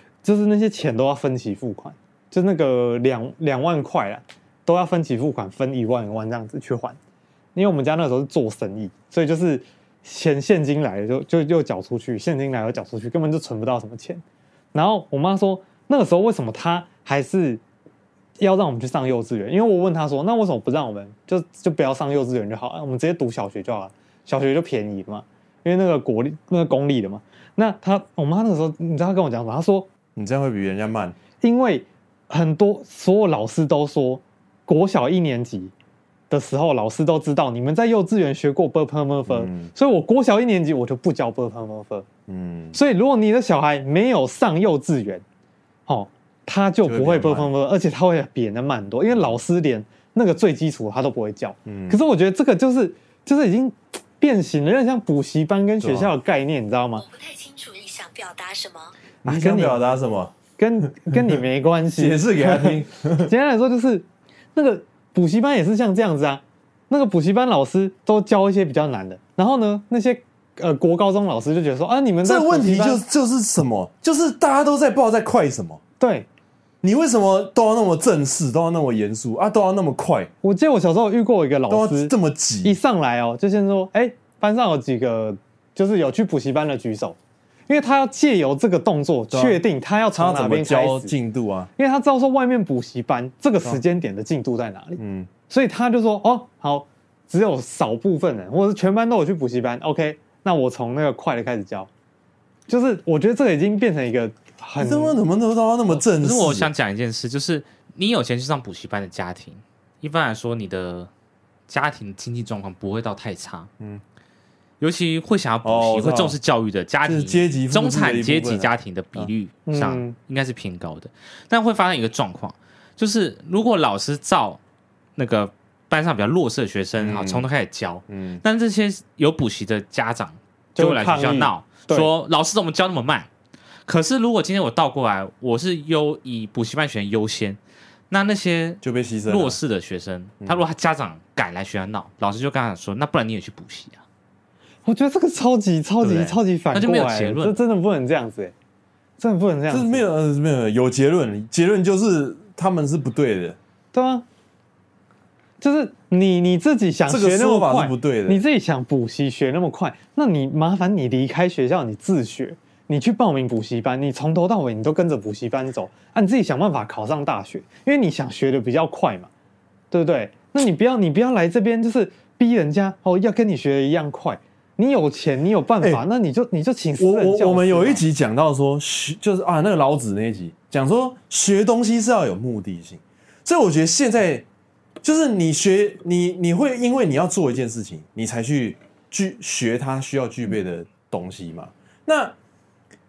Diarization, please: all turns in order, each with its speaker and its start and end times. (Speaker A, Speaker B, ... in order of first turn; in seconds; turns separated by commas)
Speaker A: 0.2-7.0, Speaker A: 7.5-14.2, Speaker A: 14.7-17.6, Speaker A: 18.4-29.9, Speaker B: 30.2-31.2, Speaker A: 31.4-35.7, Speaker A: 36.3-42.1, Speaker B: 39.3-39.7, Speaker B: 42.3-42.8, Speaker A: 42.7-45.2, Speaker A: 45.9-57.0, Speaker B: 46.8-47.5, Speaker B: 51.7-52.0, Speaker B: 55.8-56.1, Speaker C: 57.0-58.9, Speaker A: 59.2-59.9, Speaker B: 59.2-60.3, Speaker A: 60.6-73.0, Speaker B: 61.1-61.4, Speaker B: 62.0-63.3, Speaker B: 72.2-75.8, Speaker A: 76.0-76.3, Speaker B: 76.8-80.3, Speaker A: 80.4-87.2, Speaker B: 81.7-82.8, Speaker A: 87.7-91.1, Speaker B: 89.3-89.6, Speaker B: 90.2-91.7, Speaker A: 91.8-101.9, Speaker B: 95.0-95.3, Speaker A: 102.7-105.2, Speaker B: 104.8-106.7, Speaker D: 105.9-111.1, Speaker D: 111.7-113.7, Speaker D: 114.8-124.6, Speaker B: 115.6-116.4, Speaker B: 117.0-119.3, Speaker A: 119.7-120.2, Speaker D: 125.2-133.3, Speaker B: 127.0-127.5, Speaker B: 128.1-128.4, Speaker A: 130.8-132.1, Speaker D: 133.9-137.6, Speaker D: 138.1-144.0, Speaker B: 138.8-139.6, Speaker A: 144.9-148.5, Speaker D: 146.0-147.6, Speaker A: 149.2-150.1, Speaker B: 149.7-153.6, Speaker A: 153.9-154.2, Speaker A: 155.6-169.3, Speaker B: 157.1-158.4, Speaker A: 169.9-178.0, Speaker B: 177.0-184.4, Speaker B: 185.0-192.3